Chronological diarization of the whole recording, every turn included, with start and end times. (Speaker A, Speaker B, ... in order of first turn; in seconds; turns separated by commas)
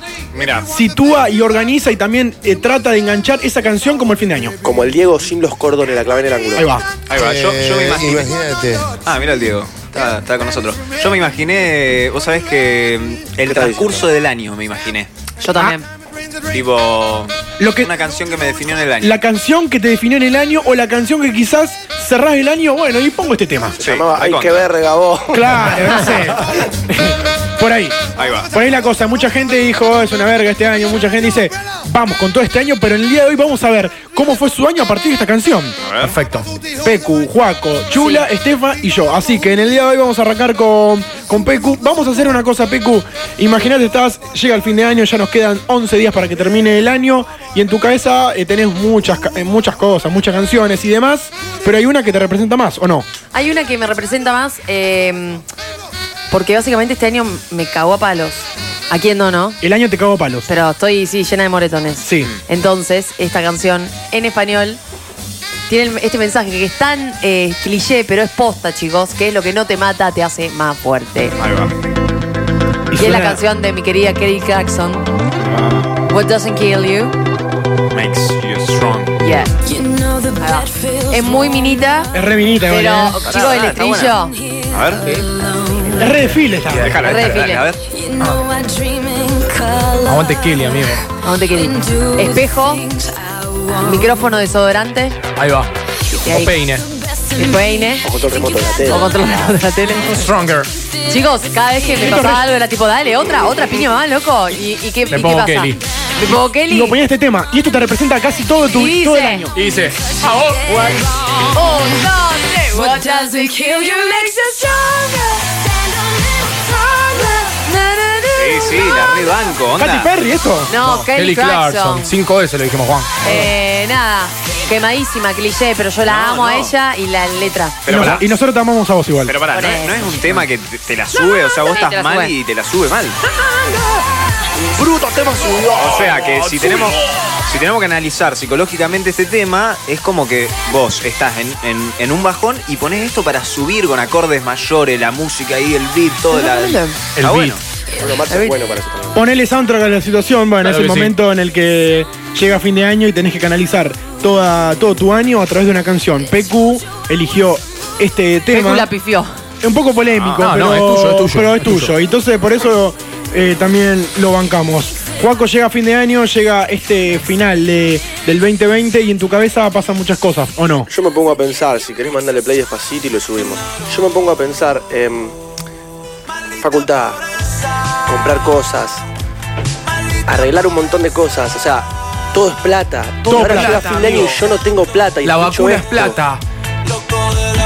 Speaker A: 0.3-0.7, Speaker B: 0.7-4.6, Speaker C: 4.6-6.7, Speaker B: 6.5-6.9, Speaker A: 7.1-8.4, Speaker A: 9.0-15.1, Speaker C: 13.4-14.0, Speaker D: 15.4-15.8, Speaker A: 16.5-19.2, Speaker B: 17.6-17.9, Speaker B: 19.0-23.8, Speaker C: 23.8-26.2, Speaker A: 23.8-24.6, Speaker B: 25.3-35.8, Speaker A: 28.1-28.5, Speaker A: 35.8-36.1, Speaker E: 36.0-36.5, Speaker B: 36.8-53.1, Speaker D: 53.3-55.4, Speaker D: 56.3-59.6, Speaker B: 59.6-60.5, Speaker D: 60.5-64.8, Speaker B: 62.0-62.3, Speaker D: 65.7-71.4, Speaker A: 71.4-71.7, Speaker B: 72.9-73.4, Speaker D: 73.0-75.0, Speaker D: 76.0-77.2, Speaker A: 77.9-79.2, Speaker D: 79.2-79.5, Speaker D: 80.4-82.1, Speaker B: 82.1-83.2, Speaker D: 82.7-84.3, Speaker A: 83.2-85.1, Speaker E: 85.0-85.2, Speaker B: 85.9-87.0, Speaker E: 86.7-87.2, Speaker A: 86.7-87.8, Speaker D: 87.0-87.7, Speaker E: 88.2-88.5, Speaker E: 89.9-91.0, Speaker D: 91.2-92.9, Speaker D: 93.8-95.2, Speaker E: 95.3-95.7, Speaker D: 96.2-96.5, Speaker E: 96.3-96.8, Speaker D: 97.3-98.0, Speaker C: 98.0-99.1, Speaker D: 98.9-100.2, Speaker E: 100.0-100.7, Speaker D: 101.0-107.0, Speaker B: 102.0-102.5, Speaker E: 105.1-105.8, Speaker B: 106.7-109.6, Speaker D: 108.7-109.5, Speaker E: 109.5-110.7, Speaker D: 111.5-114.8, Speaker D: 117.6-118.7, Speaker A: 118.3-120.1, Speaker B: 119.8-120.7, Speaker D: 120.7-122.1, Speaker E: 120.8-123.3, Speaker D: 123.2-127.8, Speaker A: 126.1-126.7, Speaker A: 127.8-128.2, Speaker B: 127.9-129.3, Speaker A: 129.2-133.2, Speaker D: 129.5-130.1, Speaker D: 131.6-132.3, Speaker C: 134.6-136.4, Speaker A: 135.7-147.6, Speaker D: 146.3-147.0, Speaker E: 147.1-147.6, Speaker C: 148.0-149.2, Speaker D: 148.3-148.5, Speaker B: 149.1-158.9, Speaker E: 150.6-151.1, Speaker D: 158.5-159.3, Speaker B: 159.6-170.9, Speaker A: 160.2-160.4, Speaker E: 160.4-161.9, Speaker C: 170.9-175.3, Speaker C: 176.6-177.2, Speaker C: 178.1-179.0, Speaker C: 180.2-186.2, Speaker E: 183.3-184.4, Speaker B: 183.3-184.2, Speaker E: 185.2-186.4